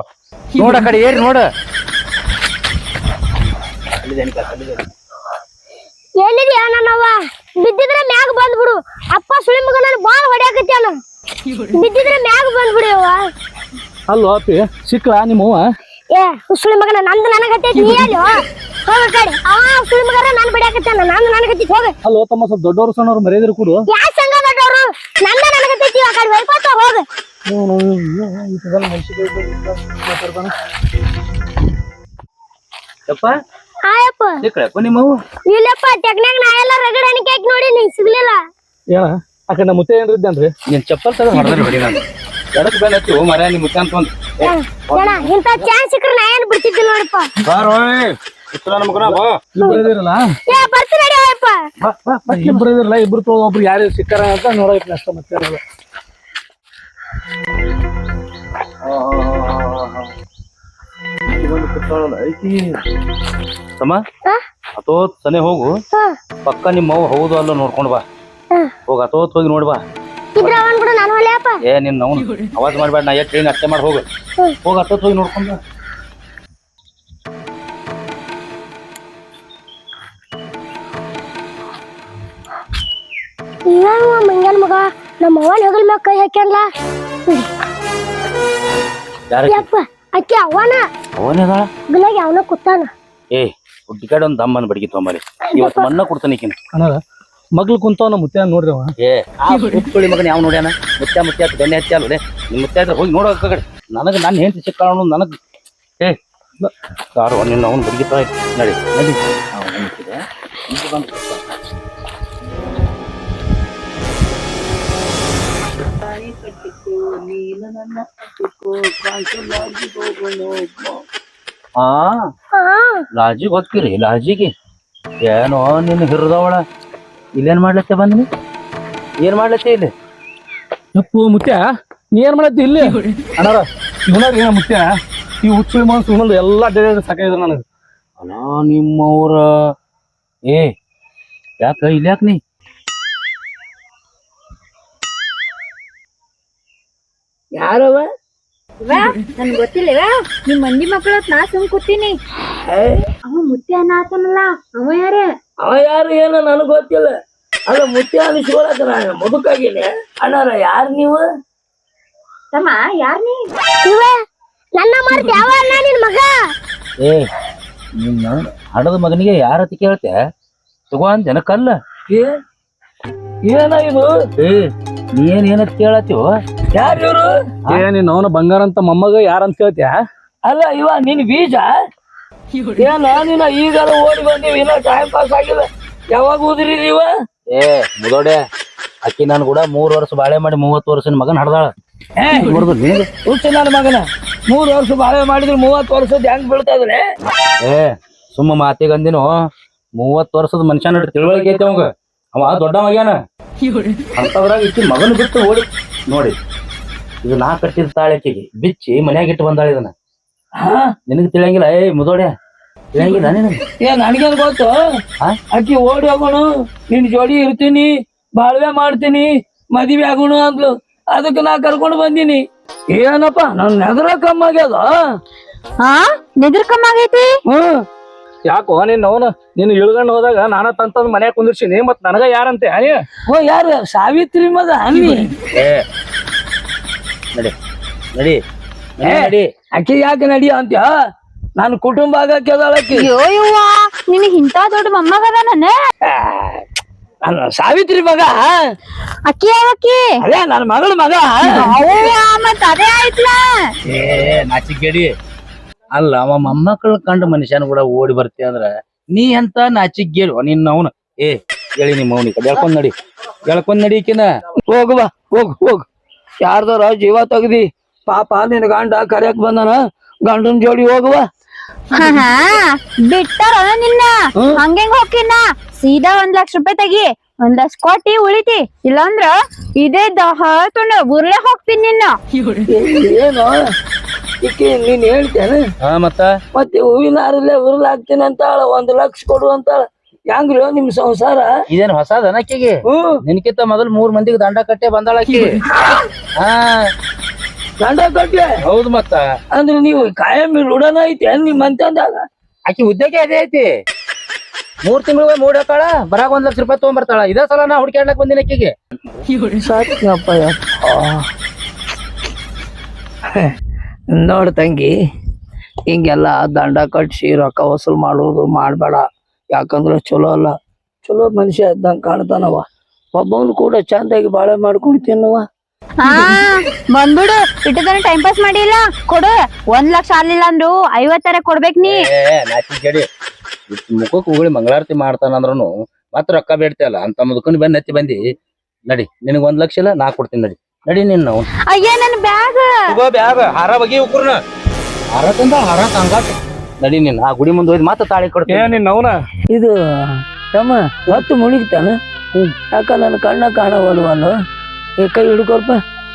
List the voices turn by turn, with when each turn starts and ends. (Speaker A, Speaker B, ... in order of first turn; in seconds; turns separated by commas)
Speaker A: 0.6-1.4, Speaker A: 4.0-4.9, Speaker B: 6.2-11.0, Speaker B: 11.7-13.2, Speaker C: 14.1-15.7, Speaker B: 16.1-21.9, Speaker C: 22.1-23.9, Speaker B: 23.9-27.1, Speaker C: 27.5-30.5, Speaker A: 33.1-33.3, Speaker B: 33.9-34.5, Speaker A: 34.4-35.1, Speaker B: 35.5-38.4, Speaker C: 38.9-40.5, Speaker A: 40.7-45.3, Speaker B: 44.4-47.3, Speaker A: 47.5-49.4, Speaker C: 49.0-50.4, Speaker B: 49.6-49.8, Speaker B: 50.5-51.6, Speaker A: 51.8-52.6, Speaker C: 52.3-55.6, Speaker A: 58.8-60.1, Speaker A: 61.3-62.6, Speaker A: 64.8-65.7, Speaker A: 66.5-68.0, Speaker A: 68.9-69.8, Speaker B: 70.3-71.6, Speaker A: 71.7-74.0, Speaker A: 74.6-75.6, Speaker B: 83.7-86.6, Speaker A: 89.3-89.7, Speaker B: 89.5-90.8, Speaker A: 91.2-91.7, Speaker B: 91.9-92.9, Speaker A: 93.3-96.5, Speaker B: 95.5-95.9, Speaker C: 96.7-97.0, Speaker C: 97.5-98.9, Speaker A: 99.0-105.3, Speaker A: 107.1-111.4, Speaker D: 116.0-120.9, Speaker A: 121.8-122.2, Speaker B: 122.6-123.0, Speaker A: 123.1-124.5, Speaker A: 125.2-126.6, Speaker A: 127.4-128.2, Speaker A: 129.2-129.9, Speaker C: 130.9-137.6, Speaker A: 138.2-139.4, Speaker A: 141.6-142.4, Speaker D: 147.5-148.1, Speaker E: 148.8-152.2, Speaker D: 152.6-153.0, Speaker E: 153.2-155.3, Speaker D: 155.6-157.1, Speaker D: 157.7-161.2, Speaker E: 162.5-163.5, Speaker B: 163.8-164.1, Speaker B: 164.8-166.3, Speaker A: 167.0-167.3, Speaker A: 168.0-170.1, Speaker A: 170.9-171.8, Speaker D: 173.4-174.1, Speaker A: 174.4-176.3, Speaker D: 176.7-177.3, Speaker C: 177.7-180.0, Speaker D: 180.4-181.7, Speaker D: 182.8-187.1, Speaker A: 187.5-188.4, Speaker A: 189.1-191.7, Speaker D: 192.2-192.6, Speaker A: 192.3-193.1, Speaker D: 193.2-197.0, Speaker A: 197.6-199.3, Speaker A: 200.0-203.2, Speaker A: 204.2-206.4, Speaker A: 207.2-209.9, Speaker D: 210.6-210.9, Speaker A: 211.1-212.3, Speaker A: 212.9-213.6, Speaker D: 213.0-214.8, Speaker D: 215.5-224.9, Speaker E: 225.8-227.4, Speaker D: 227.5-227.8, Speaker C: 228.4-233.1, Speaker D: 233.3-235.2, Speaker C: 234.9-235.2, Speaker A: 235.6-235.8, Speaker A: 239.0-239.5, Speaker D: 239.0-240.9, Speaker D: 241.6-243.1, Speaker E: 242.9-245.7, Speaker D: 246.0-246.6, Speaker D: 247.2-248.6, Speaker E: 249.2-250.0, Speaker D: 250.2-251.7, Speaker E: 251.4-253.4, Speaker A: 253.9-255.1, Speaker A: 255.9-262.9, Speaker A: 263.4-264.3, Speaker D: 264.7-265.9, Speaker D: 266.4-271.2, Speaker E: 271.9-282.1, Speaker D: 282.7-283.6, Speaker D: 284.4-285.6, Speaker A: 285.8-286.3, Speaker D: 286.5-291.5, Speaker A: 291.7-295.5, Speaker D: 292.9-293.2, Speaker A: 296.4-296.8, Speaker D: 297.8-298.6, Speaker A: 298.6-299.2, Speaker D: 299.5-302.2, Speaker A: 302.7-303.7, Speaker A: 304.9-309.2, Speaker D: 309.6-311.2, Speaker D: 314.1-314.9, Speaker D: 315.9-325.4, Speaker E: 326.0-332.0, Speaker A: 331.8-333.1, Speaker A: 333.7-338.2, Speaker A: 338.9-341.5, Speaker E: 341.6-342.9, Speaker A: 342.9-344.4, Speaker A: 345.1-348.7, Speaker C: 348.5-349.1, Speaker D: 349.5-352.0, Speaker D: 352.7-354.3, Speaker D: 355.0-355.8